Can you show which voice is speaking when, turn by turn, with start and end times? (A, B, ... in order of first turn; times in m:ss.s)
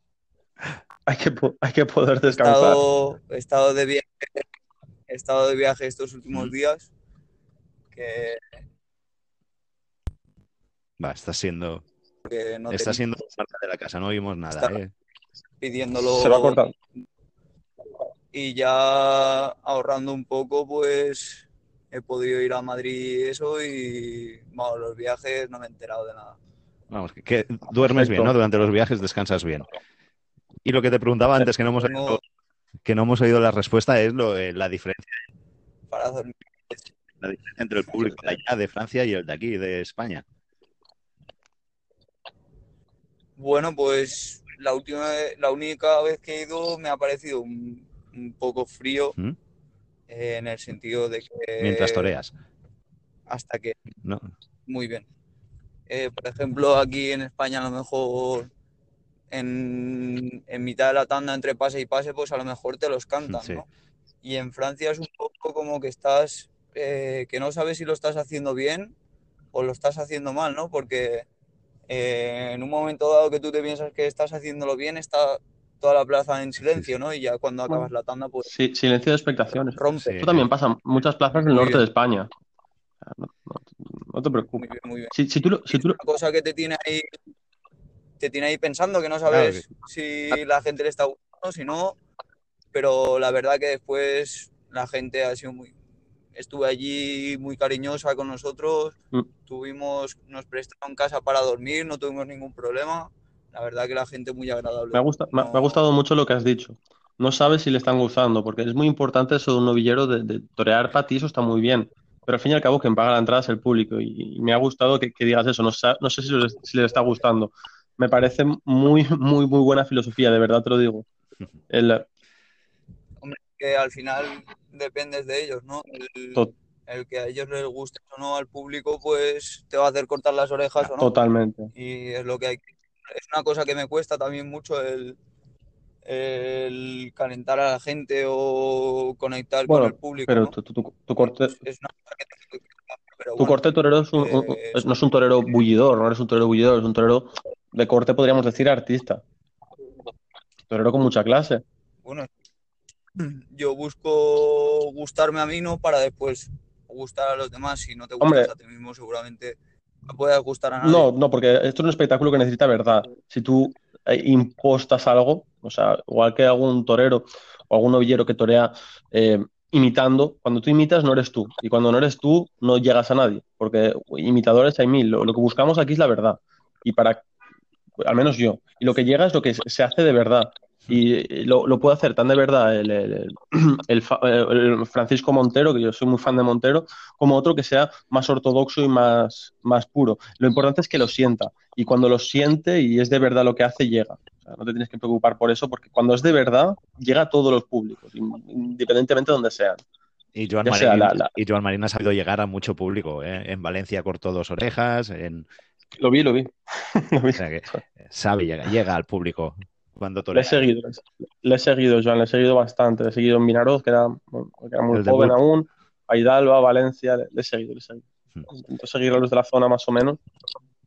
0:01.1-0:02.8 A
0:02.3-0:04.4 B
0:05.1-0:06.9 B
0:07.9-0:08.4 B
0:11.0-0:11.8 C
0:12.2-0:13.0 B
0:12.7-0:14.9 C
0:15.6-0:16.6 B
0:16.1-0:16.7 A
0:18.3-0:26.4 B
0:26.9-0:29.7 C
0:27.8-0:28.3 A
0:30.6-0:32.2 C
0:31.6-0:32.2 B
0:32.8-0:35.2 C
0:35.9-0:36.8 B
0:37.2-0:40.2 C
0:43.4-0:49.2 B
0:50.1-0:52.2 B
0:51.6-0:52.3 C
0:53.3-0:53.8 B
0:54.0-0:54.3 C
0:54.7-0:55.1 B
0:55.9-0:58.5 B
0:59.3-1:03.7 B
1:03.3-1:03.6 C
1:04.2-1:09.0 B
1:09.5-1:11.3 B
1:11.9-1:18.5 B
1:18.5-1:22.3 A
1:19.8-1:20.3 B
1:20.0-1:20.5 C
1:21.5-1:21.8 B
1:23.1-1:26.0 A
1:24.6-1:25.1 B
1:25.7-1:27.1 B
1:28.2-1:32.0 B
1:29.3-1:29.6 C
1:32.7-1:35.7 B
1:36.4-1:39.0 B
1:39.5-1:45.8 B
1:44.9-2:01.1 A
2:01.7-2:02.1 A
2:03.2-2:11.1 B
2:11.0-2:11.7 A
2:11.7-2:15.2 B
2:16.0-2:20.5 B
2:19.7-2:21.5 A
2:21.2-2:23.6 B
2:23.4-2:29.2 A
2:24.2-2:24.9 B
2:30.7-2:31.6 A
2:33.2-2:41.1 B
2:38.2-2:38.5 A
2:40.8-2:57.3 A
2:58.0-3:19.8 A
3:20.4-3:25.5 C
3:20.6-3:21.3 A
3:26.0-3:27.8 A
3:27.4-3:30.6 C
3:30.3-3:40.2 A
3:34.9-3:35.4 C